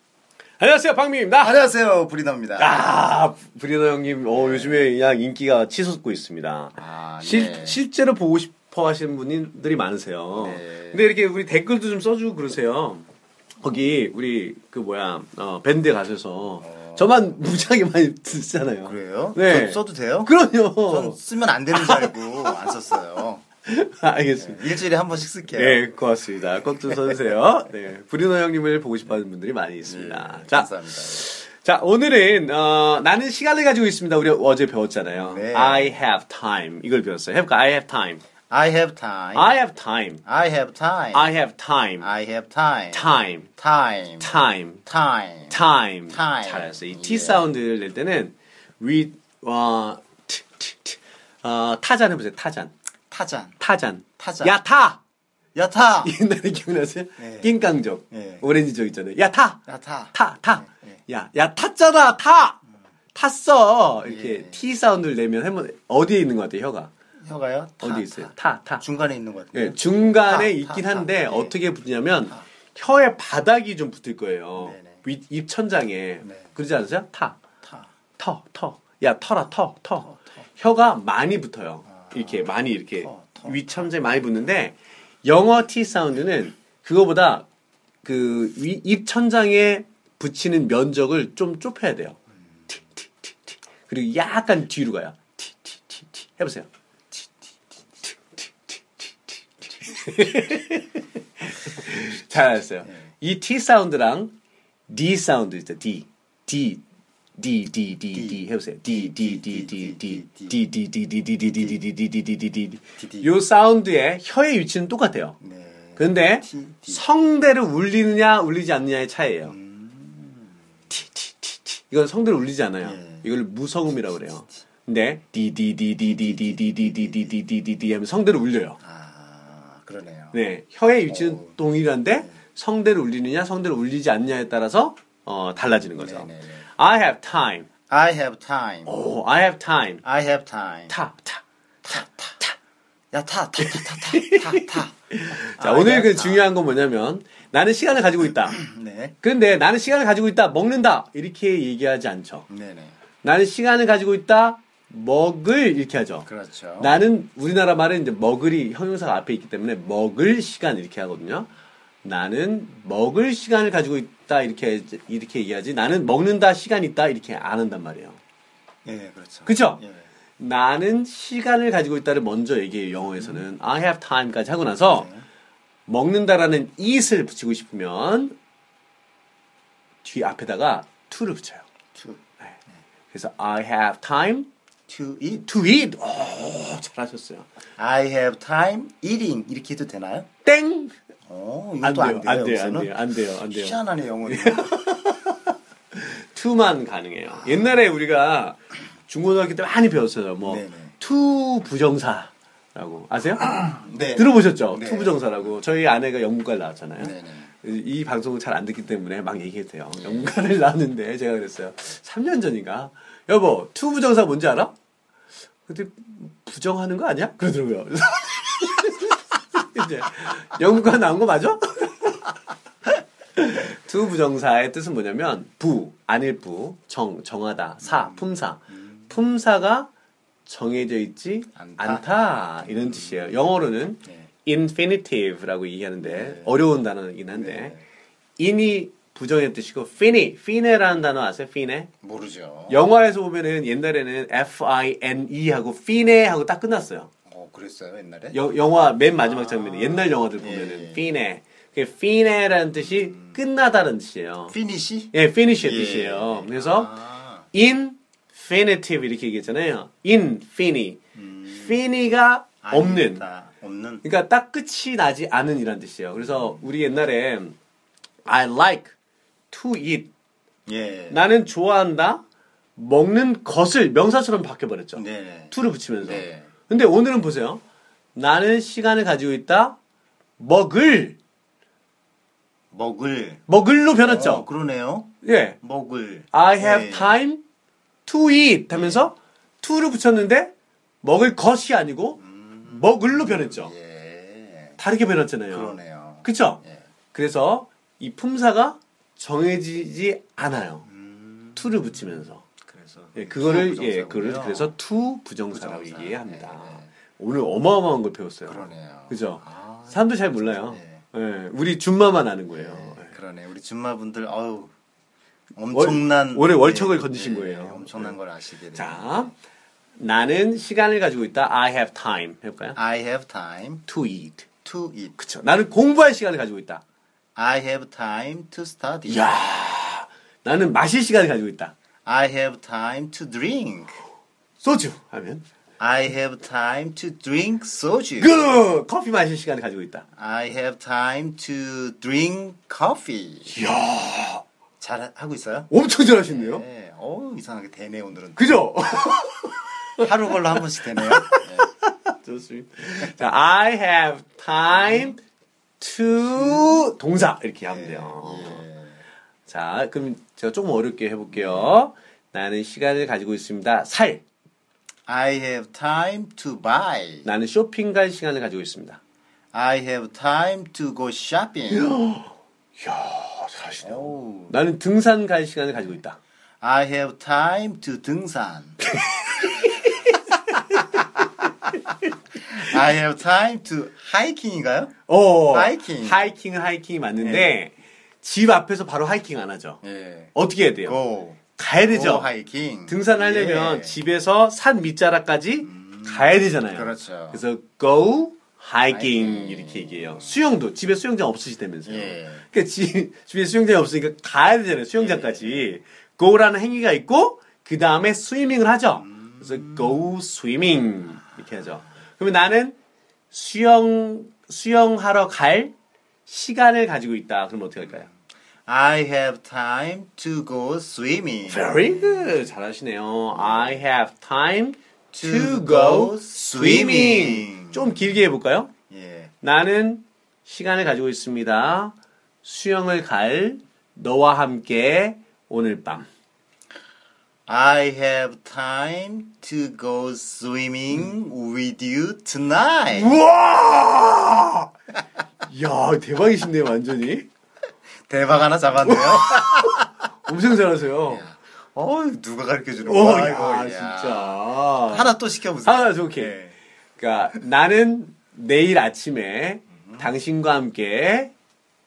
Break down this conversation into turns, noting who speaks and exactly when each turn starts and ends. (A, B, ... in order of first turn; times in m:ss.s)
0:00.6-0:01.6 A
0:01.4-0:02.9 B
0:02.6-0:13.1 A
0:04.3-0:04.9 B
0:06.8-0:07.8 B
0:10.4-0:11.2 B
0:13.6-0:21.2 A
0:16.6-0:17.4 B
0:18.8-0:23.4 B
0:21.7-0:22.7 A
0:23.7-0:24.7 A
0:24.4-0:26.0 B
0:25.5-0:38.2 A
0:26.8-0:27.4 B
0:29.8-0:31.3 B
0:35.2-0:36.0 B
0:38.5-0:39.5 B
0:39.4-0:40.2 A
0:40.2-0:41.4 B
0:41.1-0:42.1 A
0:42.0-0:47.5 B
0:42.9-0:43.5 A
0:44.2-0:44.8 A
0:45.5-0:52.7 A
0:53.1-0:53.6 B
0:53.6-0:55.0 A
0:54.2-0:54.6 B
0:55.6-0:56.1 B
0:56.0-0:59.6 A
0:57.2-0:58.6 B
0:59.7-1:01.0 B
1:00.1-1:02.6 A
1:03.1-1:06.9 A
1:03.9-1:04.7 B
1:07.2-1:11.5 B
1:07.8-1:08.8 A
1:09.5-1:17.4 A
1:14.6-1:15.0 B
1:16.2-1:16.5 B
1:17.6-1:17.9 B
1:18.2-1:27.5 A
1:21.9-1:24.0 B
1:28.0-1:32.2 A
1:33.9-1:36.7 A
1:39.8-1:44.4 A
1:44.9-1:46.8 A
1:47.4-1:55.4 A
1:48.1-1:50.6 B
1:51.4-1:51.8 B
1:53.0-1:53.3 B
1:55.4-1:57.1 B
1:56.0-1:59.5 A
1:59.4-2:00.6 B
2:00.9-2:08.8 A
2:02.8-2:03.3 B
2:04.0-2:04.4 B
2:06.0-2:07.4 B
2:08.8-2:10.4 B
2:10.3-2:17.7 A
2:11.1-2:11.6 B
2:15.8-2:16.7 B
2:17.9-2:19.0 B
2:18.8-2:20.0 A
2:20.0-2:21.0 B
2:20.9-2:22.6 A
2:21.8-2:22.4 B
2:23.1-2:26.5 B
2:23.6-2:28.6 A
2:28.5-2:29.2 B
2:29.2-2:32.5 A
2:32.5-2:33.0 B
2:33.2-2:36.3 A
2:36.3-2:37.0 B
2:36.8-2:41.5 A
2:42.0-2:48.2 A
2:48.8-2:50.0 B
2:49.5-2:49.8 A
2:50.4-2:55.1 A
2:53.2-2:53.4 B
2:54.8-2:55.2 B
2:55.9-2:58.4 A
3:00.0-3:01.6 A
3:02.0-3:02.2 B
3:03.1-3:04.5 A
3:04.9-3:05.5 B
3:05.4-3:07.5 A
3:07.8-3:10.3 B
3:10.4-3:11.0 A
3:11.3-3:14.9 B
3:11.8-3:34.8 A
3:20.4-3:21.0 B
3:23.7-3:25.6 B
3:27.0-3:27.5 B
3:29.9-3:30.4 B
3:35.7-3:42.3 A
3:43.4-3:49.9 A
3:47.8-3:49.1 B
3:50.5-3:57.8 A
3:51.6-3:53.5 B
3:56.0-3:56.6 B
3:57.4-3:57.8 B
3:58.4-4:01.9 A
4:02.0-4:02.8 B
4:02.7-4:07.1 A
4:07.3-4:08.4 B
4:08.3-4:14.6 A
4:09.1-4:11.2 B
4:12.8-4:13.4 B
4:14.5-4:17.5 B
4:15.1-4:16.9 A
4:17.5-4:21.0 A
4:21.2-4:21.8 B
4:21.5-4:23.2 A
4:22.6-4:24.1 B
4:24.0-4:27.6 A
4:26.2-4:26.6 B
4:28.2-4:28.9 A
4:29.5-4:30.1 A
4:30.7-4:31.2 B
4:31.1-4:32.2 A
4:32.8-4:37.6 A
4:35.0-4:36.5 B
4:38.2-4:39.8 A
4:40.4-4:41.2 A
4:42.7-4:47.2 B
4:43.5-4:44.5 A
4:45.2-4:45.6 A
4:46.3-4:47.4 A
4:48.1-4:53.7 A
4:48.7-4:49.1 B
4:52.2-4:54.8 B
4:54.8-4:56.6 A
4:55.5-4:56.8 B
4:57.1-5:00.9 A
5:00.8-5:04.8 B
5:01.6-5:02.4 A
5:03.2-5:13.1 A
5:05.5-5:06.9 B
5:08.5-5:11.0 B
5:12.5-5:14.7 B
5:15.6-5:19.3 B
5:15.7-5:18.2 A
5:18.7-5:19.3 A
5:20.0-5:22.8 A
5:22.8-5:23.8 B
5:23.9-5:24.5 A
5:24.6-5:25.2 B
5:25.2-5:26.8 A
5:27.4-5:29.7 B
5:29.1-5:31.7 A
5:32.0-5:34.0 B
5:34.6-5:35.4 A
5:35.8-5:38.6 B
5:38.2-5:40.0 A
5:40.2-5:43.6 B
5:43.5-5:44.4 A
5:44.8-5:49.1 B
5:45.7-5:46.6 A
5:48.4-5:50.1 A
5:50.0-5:51.7 B
5:50.8-5:55.2 A
5:54.7-5:55.2 B
5:55.8-5:58.6 A
5:56.3-5:56.8 B
5:57.7-5:59.0 B
5:59.5-6:04.2 A
6:01.3-6:01.7 B
6:05.1-6:07.3 B
6:07.2-6:09.0 A
6:09.5-6:12.0 B
6:11.7-6:16.2 A
6:13.8-6:14.6 B
6:16.6-6:18.8 B
6:19.0-6:21.0 A
6:22.4-6:26.3 B
6:25.1-6:29.8 A
6:27.2-6:27.5 B
6:29.8-6:34.0 B
6:30.3-6:31.0 A
6:31.6-6:32.3 A
6:32.9-6:52.8 A
6:35.6-6:37.4 B
6:38.9-6:40.4 B
6:41.9-6:42.4 B
6:45.0-6:45.8 B
6:49.1-6:50.2 B
6:53.3-6:55.7 A
6:56.3-6:58.1 A
6:58.7-7:02.4 B
7:01.5-7:08.7 A
7:03.3-7:03.8 B
7:05.1-7:08.2 B
7:08.9-7:09.3 B
7:09.4-7:16.1 A
7:17.5-7:23.2 B
7:22.9-7:24.7 A
7:25.4-7:27.3 A
7:28.1-7:29.9 B
7:28.9-7:31.3 A
7:31.1-7:36.6 B
7:32.8-7:36.4 A
7:37.0-7:41.3 A
7:39.8-7:40.1 B